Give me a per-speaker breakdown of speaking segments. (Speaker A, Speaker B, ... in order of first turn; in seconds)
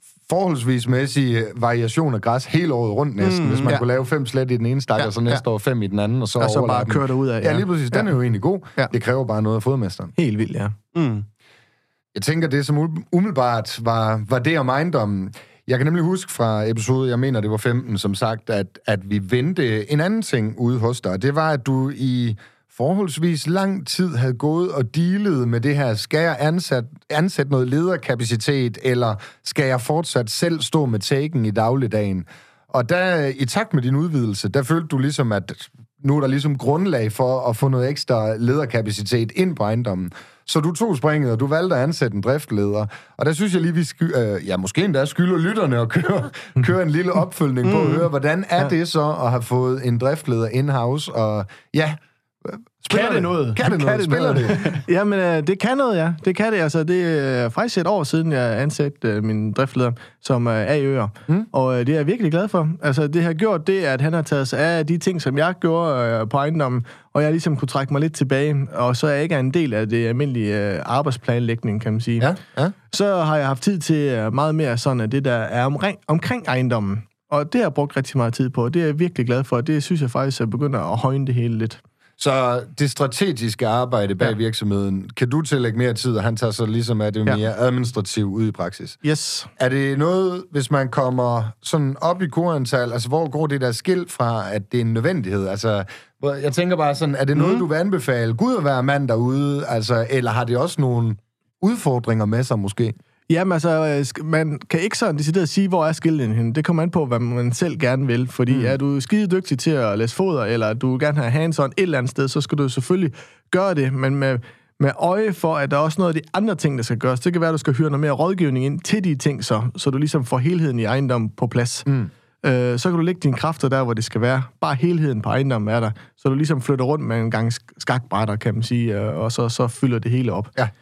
Speaker A: 0.3-10.1, 12.1-54.6, 72.2-72.7, 82.2-89.0, 89.6-102.9, 108.5-108.7
Speaker B: 3.2-3.7, 10.9-11.2, 47.6-48.0, 52.9-53.6, 97.4-97.6
Speaker C: 6.4-8.1, 10.2-10.7, 53.6-72.3, 72.9-81.8, 89.0-89.5, 103.3-121.9, 122.4-130.5